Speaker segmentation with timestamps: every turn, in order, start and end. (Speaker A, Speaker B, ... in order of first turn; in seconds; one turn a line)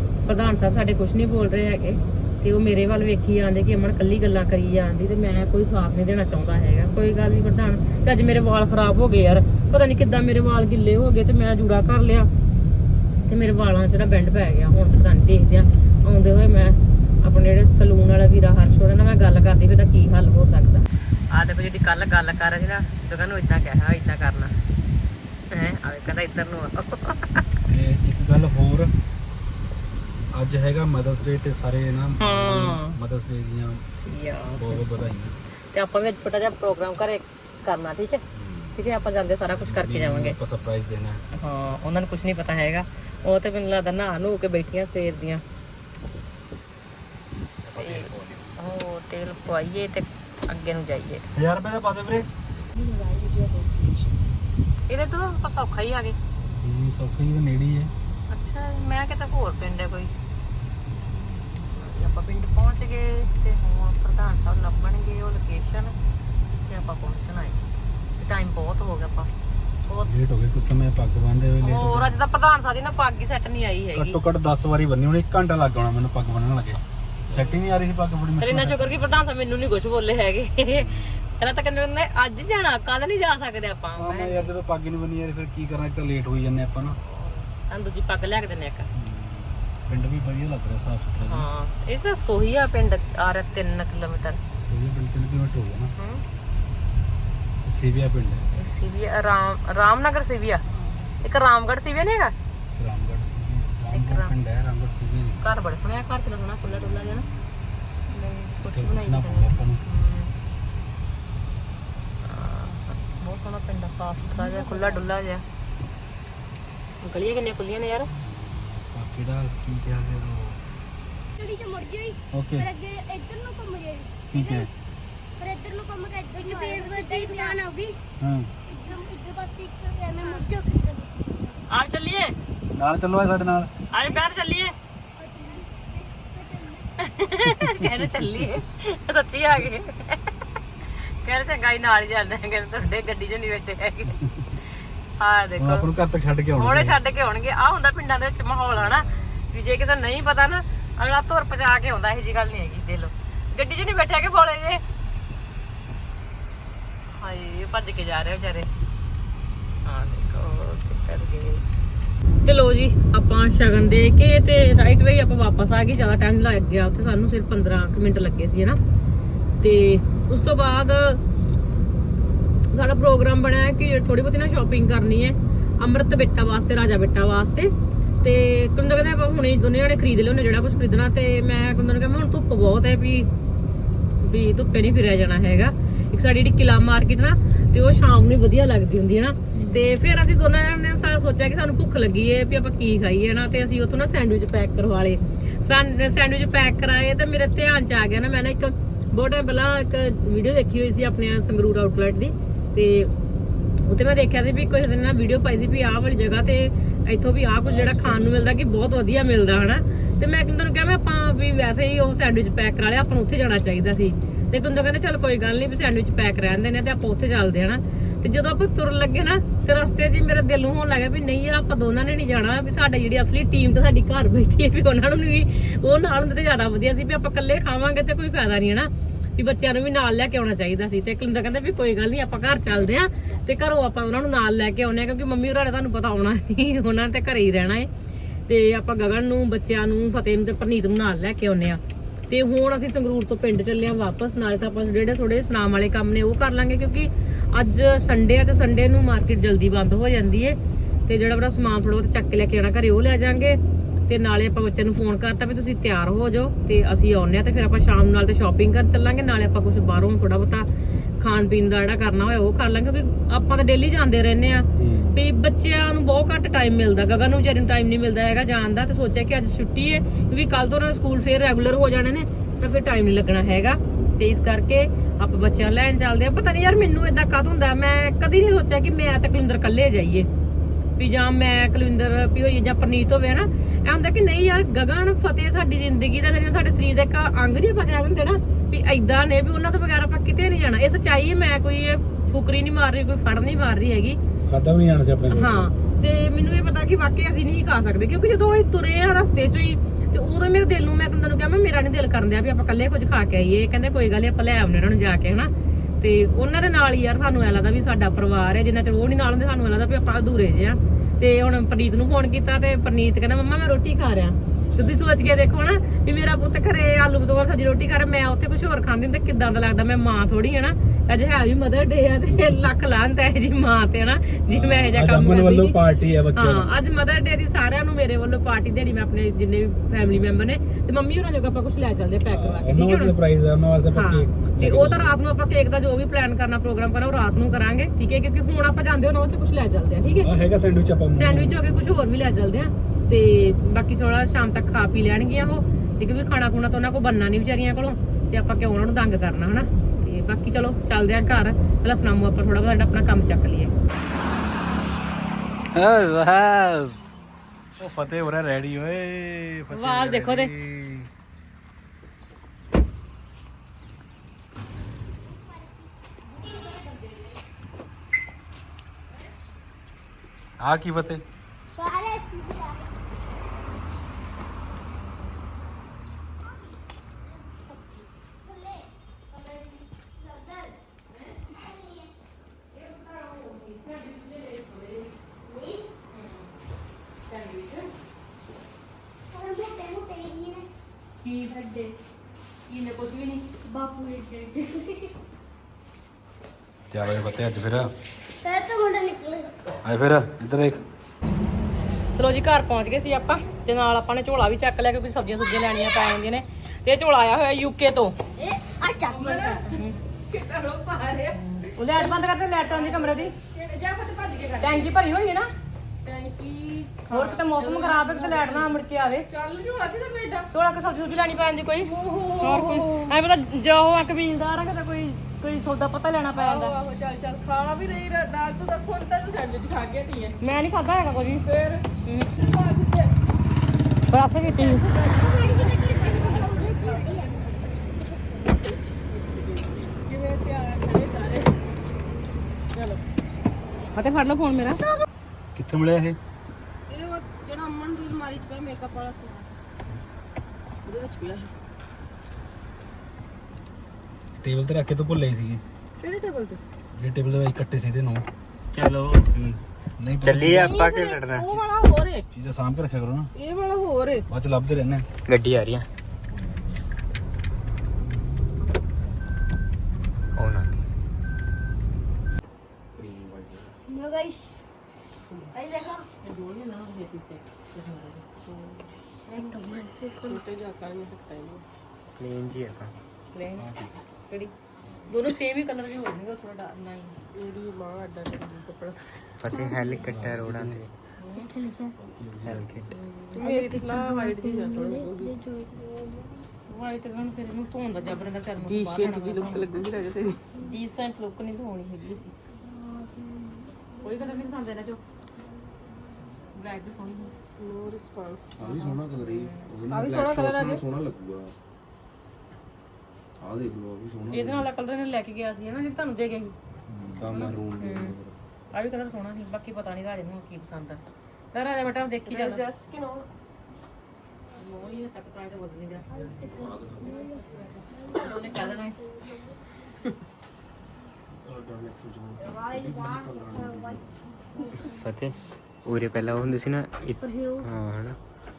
Speaker A: 0.2-12.3
Speaker A: 13.2-24.5
Speaker A: 25.5-27.4
Speaker B: 27.7-28.9
Speaker B: 30.3-33.8
Speaker A: 32.2-33.0
Speaker A: 33.8-34.8
Speaker B: 34.5-35.3
Speaker A: 35.7-38.2
Speaker B: 38.3-38.8
Speaker A: 38.8-40.4
Speaker B: 39.5-41.2
Speaker A: 41.3-45.4
Speaker B: 47.7-48.4
Speaker A: 47.8-51.2
Speaker B: 51.3-52.2
Speaker C: 52.7-54.2
Speaker A: 54.9-56.2
Speaker B: 56.6-57.9
Speaker A: 58.3-60.1
Speaker A: 61.7-65.9
Speaker A: 66.6-67.6
Speaker A: 68.2-69.3
Speaker B: 70.0-72.1
Speaker A: 71.6-74.2
Speaker B: 73.9-79.0
Speaker A: 78.4-84.5
Speaker B: 80.7-81.3
Speaker B: 84.0-87.0
Speaker A: 87.0-88.9
Speaker B: 88.9-91.5
Speaker A: 91.3-94.4
Speaker B: 94.6-95.9
Speaker B: 97.7-98.4
Speaker A: 98.5-100.6
Speaker A: 101.2-102.3
Speaker B: 102.8-105.4
Speaker A: 103.9-104.3
Speaker A: 105.4-107.3
Speaker B: 106.6-107.5
Speaker A: 108.1-110.3
Speaker B: 108.6-109.8
Speaker A: 112.2-115.4
Speaker A: 117.0-118.1
Speaker B: 118.1-120.6
Speaker D: 121.4-124.7
Speaker B: 122.3-122.7
Speaker B: 124.3-124.7
Speaker D: 125.4-128.0
Speaker C: 126.3-127.6
Speaker B: 128.2-128.5
Speaker D: 128.7-131.6
Speaker A: 131.7-132.3
Speaker B: 132.7-133.7
Speaker A: 133.9-134.7
Speaker D: 135.2-136.9
Speaker A: 137.0-140.2
Speaker A: 141.2-144.2
Speaker A: 145.2-145.9
Speaker B: 145.6-147.0
Speaker A: 146.5-154.8
Speaker A: 157.2-158.7
Speaker A: 159.8-161.6
Speaker A: 162.4-168.8
Speaker A: 169.6-171.2
Speaker A: 172.7-183.3
Speaker A: 184.2-203.1
Speaker B: 189.5-190.0
Speaker A: 203.9-237.9
Speaker B: 207.7-208.2
Speaker A: 238.5-260.7
Speaker A: 261.2-280.3
Speaker B: 264.8-265.2
Speaker A: 281.0-294.2
Speaker B: 294.5-295.7
Speaker A: 295.3-325.8
Speaker B: 324.5-326.7
Speaker A: 326.4-333.1
Speaker B: 332.3-335.1
Speaker A: 333.9-340.3
Speaker B: 340.2-341.5
Speaker A: 341.1-353.7
Speaker B: 355.8-357.0
Speaker B: 357.8-361.1
Speaker A: 359.7-360.5
Speaker A: 366.8-367.1
Speaker B: 370.6-371.2
Speaker D: 371.7-372.9
Speaker D: 378.4-380.8
Speaker A: 381.1-381.4
Speaker D: 381.5-382.1
Speaker A: 382.7-385.1
Speaker D: 385.4-386.0
Speaker A: 386.1-386.5
Speaker A: 387.3-387.9
Speaker D: 389.3-390.7
Speaker A: 391.2-391.9
Speaker A: 392.7-393.5
Speaker D: 393.6-395.1
Speaker B: 396.9-397.9
Speaker D: 398.4-399.6
Speaker B: 399.8-400.8
Speaker A: 402.2-408.1
Speaker D: 408.4-409.6
Speaker C: 409.1-412.0
Speaker A: 409.6-410.0
Speaker A: 411.4-413.3
Speaker C: 412.7-414.9
Speaker A: 414.6-415.5
Speaker C: 416.0-418.7
Speaker A: 417.1-419.3
Speaker C: 419.3-420.5
Speaker A: 420.5-426.8
Speaker C: 421.8-423.1
Speaker C: 426.4-430.4
Speaker A: 430.4-431.4
Speaker C: 431.4-433.1
Speaker A: 432.1-432.3
Speaker A: 434.1-434.9
Speaker D: 434.5-438.5
Speaker C: 436.0-437.1
Speaker C: 438.5-441.5
Speaker C: 442.7-443.0
Speaker A: 443.9-444.8
Speaker B: 445.6-446.2
Speaker C: 446.9-449.5
Speaker C: 450.9-451.5
Speaker B: 454.4-455.6
Speaker C: 456.0-456.6
Speaker B: 456.9-458.2
Speaker E: 458.7-459.3
Speaker B: 459.3-460.8
Speaker E: 460.2-461.6
Speaker C: 460.4-462.3
Speaker B: 462.3-463.3
Speaker C: 463.4-464.2
Speaker B: 464.3-465.1
Speaker E: 465.2-465.9
Speaker E: 470.4-470.8
Speaker F: 472.9-473.8
Speaker D: 473.9-474.6
Speaker D: 475.5-476.1
Speaker A: 476.2-478.2
Speaker C: 478.4-478.9
Speaker A: 479.3-479.7
Speaker D: 479.4-480.4
Speaker C: 480.2-481.6
Speaker E: 482.1-482.9
Speaker A: 483.3-483.7
Speaker B: 483.6-483.9
Speaker A: 485.1-487.1
Speaker C: 487.4-489.2
Speaker E: 489.4-490.9
Speaker D: 489.5-490.0
Speaker B: 490.0-490.8
Speaker A: 491.2-491.5
Speaker D: 491.4-491.9
Speaker B: 492.0-492.8
Speaker E: 492.4-493.0
Speaker C: 493.3-495.4
Speaker A: 493.4-494.2
Speaker D: 493.4-496.1
Speaker A: 496.7-499.8
Speaker C: 498.6-500.4
Speaker A: 500.6-502.3
Speaker D: 502.7-503.6
Speaker A: 504.0-505.0
Speaker A: 506.6-507.3
Speaker C: 507.6-508.8
Speaker F: 508.6-511.6
Speaker A: 508.6-509.6
Speaker C: 509.9-510.8
Speaker F: 513.4-514.7
Speaker A: 514.3-516.5
Speaker F: 516.9-518.4
Speaker A: 517.2-518.1
Speaker A: 518.7-521.0
Speaker A: 521.5-522.6
Speaker C: 522.3-523.3
Speaker A: 524.6-526.1
Speaker D: 526.1-529.5
Speaker F: 526.4-527.3
Speaker A: 528.1-529.0
Speaker F: 531.4-534.1
Speaker D: 532.4-535.0
Speaker E: 534.9-538.2
Speaker D: 537.2-537.7